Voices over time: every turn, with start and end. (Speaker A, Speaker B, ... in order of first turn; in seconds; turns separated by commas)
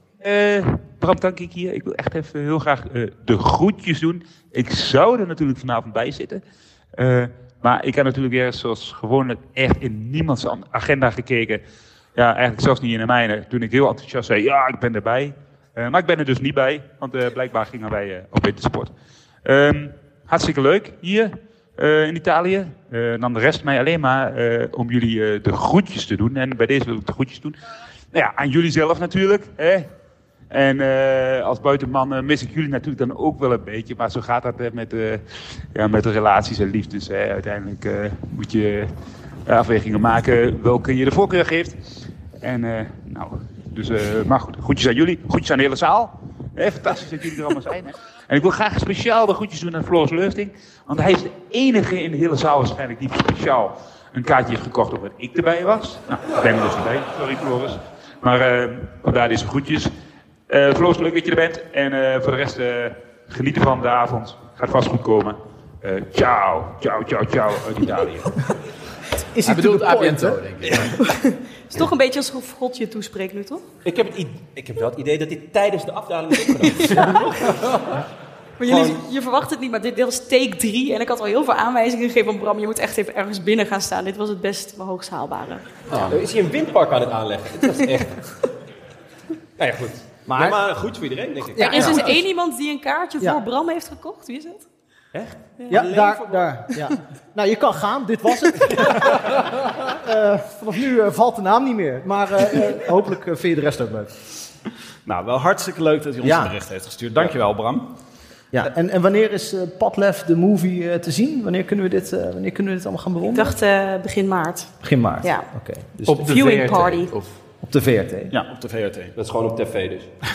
Speaker A: 0.2-6.4, Speaker A: 7.0-11.6, Speaker A: 12.2-18.9, Speaker A: 19.4-27.6, Speaker A: 28.1-29.9, Speaker A: 30.5-35.2, Speaker A: 35.7-38.9, Speaker A: 39.5-41.8, Speaker A: 42.4-59.9, Speaker A: 60.5-68.4, Speaker B: 69.3-70.4, Speaker C: 69.5-70.9, Speaker D: 71.0-73.7, Speaker E: 73.8-77.6, Speaker D: 76.7-77.4, Speaker D: 78.6-85.7, Speaker E: 78.7-79.0, Speaker C: 85.9-86.2, Speaker E: 86.0-88.3, Speaker E: 89.6-92.1, Speaker B: 90.3-90.6, Speaker B: 91.5-92.2, Speaker D: 91.6-94.7, Speaker E: 95.1-96.6, Speaker B: 95.7-104.1, Speaker F: 105.1-107.9, Speaker B: 106.2-106.5, Speaker B: 108.5-113.5, Speaker D: 113.3-115.5, Speaker B: 114.8-116.3, Speaker C: 116.1-117.3, Speaker D: 116.2-117.1, Speaker B: 117.6-118.3, Speaker F: 118.3-119.1, Speaker E: 119.2-120.1